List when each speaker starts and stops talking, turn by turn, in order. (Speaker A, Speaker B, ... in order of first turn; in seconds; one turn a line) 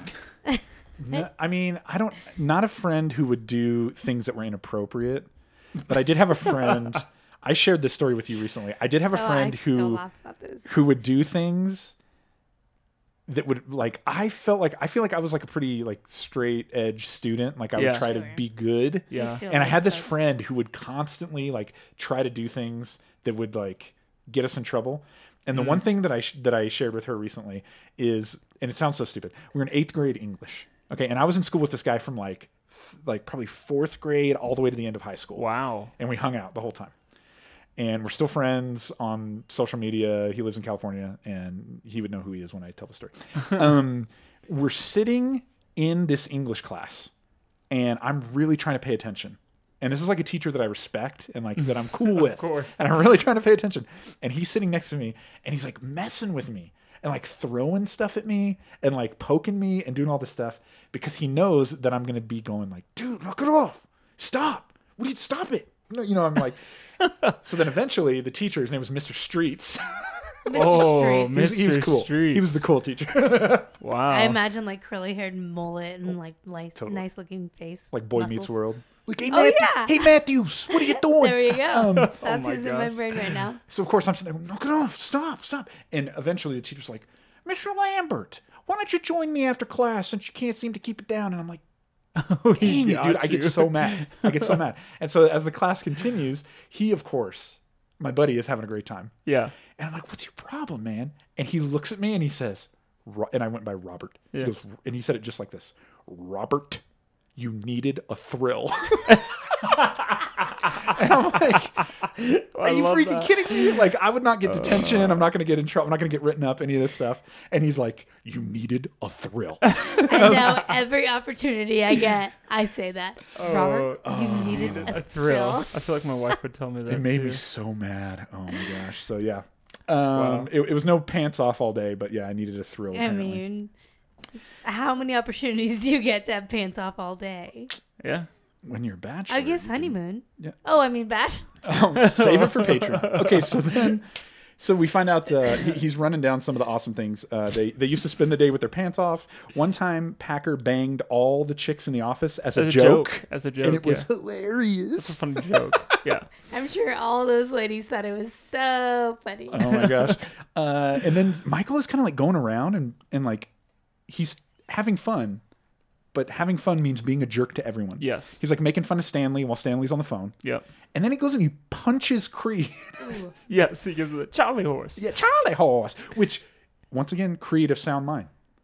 Speaker A: 1.0-5.3
Speaker A: 5.8-10.0
Speaker B: 9.1-10.7
Speaker A: 10.7-11.9
Speaker A: 13.3-35.5
Speaker C: 17.8-18.1
Speaker B: 17.9-18.4
Speaker C: 19.1-19.4
Speaker B: 19.1-20.2
Speaker C: 25.5-25.8
Speaker C: 35.4-35.9
Speaker A: 36.0-36.9
Speaker A: 37.8-47.1
Speaker A: 47.7-66.6
Speaker C: 52.0-52.8
Speaker A: 67.3-73.7
Speaker B: 70.4-71.3
Speaker C: 70.5-72.7
Speaker C: 73.8-74.4
Speaker B: 74.1-78.6
Speaker A: 76.8-77.0
Speaker A: 77.9-82.2
Speaker B: 79.3-80.1
Speaker B: 80.7-83.6
Speaker C: 81.9-83.4
Speaker A: 83.7-91.6
Speaker C: 92.2-94.5
Speaker A: 92.5-99.1
Speaker C: 99.2-99.5
Speaker A: 99.7-106.8
Speaker A: 107.3-109.9
Speaker C: 109.1-110.8
Speaker A: 110.7-111.8
Speaker C: 112.2-113.9
Speaker A: 112.6-120.7
Speaker C: 114.5-115.3
Speaker C: 119.7-120.5
Speaker B: 120.0-125.8
Speaker C: 123.3-127.4
Speaker A: 124.0-125.0
Speaker A: 126.9-133.4
Speaker C: 130.1-130.5
Speaker B: 132.9-133.7
Speaker B: 134.6-137.7
Speaker C: 138.0-138.3
Speaker A: 138.6-140.5
Speaker B: 139.3-141.5
Speaker A: 141.6-155.5
Speaker C: 141.9-143.9
Speaker C: 152.5-154.1
Speaker C: 154.9-156.3
Speaker B: 156.5-159.8
Speaker A: 159.5-163.5
Speaker A: 164.1-165.4
Speaker A: 166.1-170.3
Speaker C: 168.0-168.4
Speaker A: 170.9-173.2
Speaker C: 173.5-175.0
Speaker A: 174.9-178.3